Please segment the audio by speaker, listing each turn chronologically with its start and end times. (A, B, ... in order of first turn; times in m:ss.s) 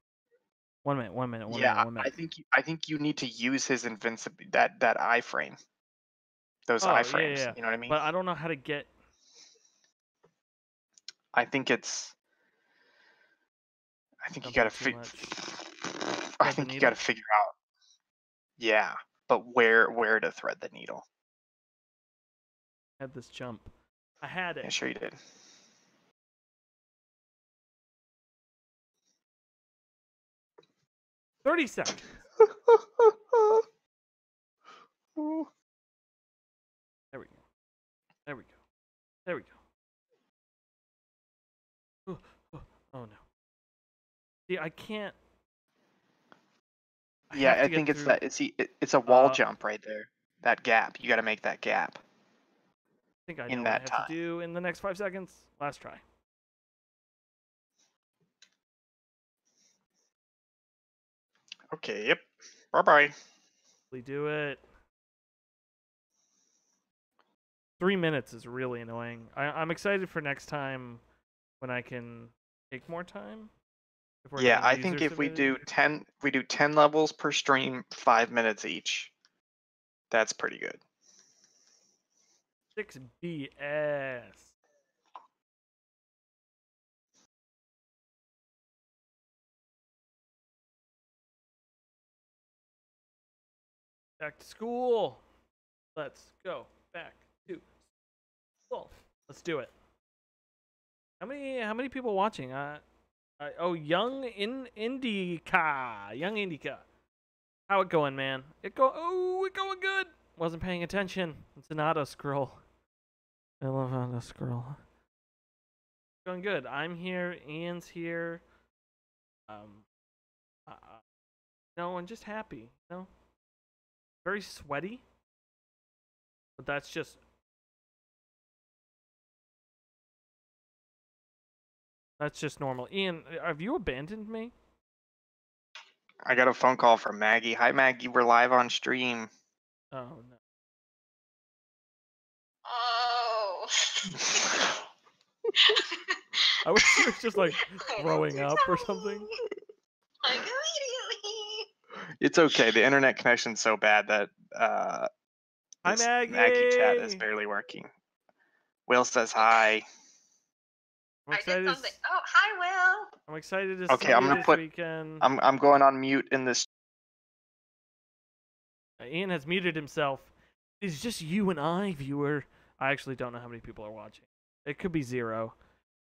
0:00.8-0:02.1 A
0:01.5-0:05.6 B
0:06.7-0:08.0 B
0:06.8-0:08.9 A
0:11.3-0:12.1 B
0:14.2-0:17.5 B
0:14.4-0:15.4 A
0:16.4-0:17.0 A
0:18.6-0:21.0 B
0:23.0-0:23.7 A
0:24.2-0:24.7 A
0:24.6-0:25.2 B
0:31.4-0:32.2 A
0:32.4-0:33.6 B
0:35.2-0:35.5 B
0:37.1-0:37.4 A
0:38.2-0:38.6 A
0:39.2-0:39.5 A
0:42.1-0:43.2 A
0:44.5-0:45.2 A
0:47.3-0:48.2 A
0:47.3-0:52.0 B
0:49.0-0:49.4 A
0:53.3-0:56.0 A
0:53.5-0:54.1 B
1:01.7-1:03.1 B
1:03.9-1:04.6 A
1:07.8-1:11.0 A
1:11.6-1:13.5 A
1:14.2-1:15.6 A
1:14.4-1:19.1 B
1:20.1-1:20.8 B
1:22.8-1:24.5 A
1:34.2-1:35.2 A
1:35.9-1:37.7 A
1:38.7-1:39.7 A
1:41.2-1:42.8 A
1:43.4-1:46.8 A
1:47.7-1:52.6 A
1:53.6-1:54.8 A
1:56.2-1:58.4 A
1:59.5-1:59.8 A
2:00.7-2:01.0 A
2:01.8-2:03.1 A
2:04.2-2:05.0 A
2:06.6-2:07.2 A
2:12.2-2:14.5 A
2:16.2-2:19.3 B
2:19.9-2:20.4 A
2:22.6-2:24.8 C
2:25.6-2:26.2 C
2:26.6-2:29.3 A
2:26.8-2:29.4 C
2:30.2-2:31.7 C
2:32.2-2:35.1 B
2:35.8-2:37.2 A
2:35.8-2:37.9 B
2:38.9-2:39.8 B
2:39.4-2:39.7 C
2:41.3-2:42.0 A
2:41.3-2:43.1 C
2:43.3-2:45.3 A
2:43.9-2:44.6 B
2:45.2-2:46.7 B
2:49.0-2:55.6 A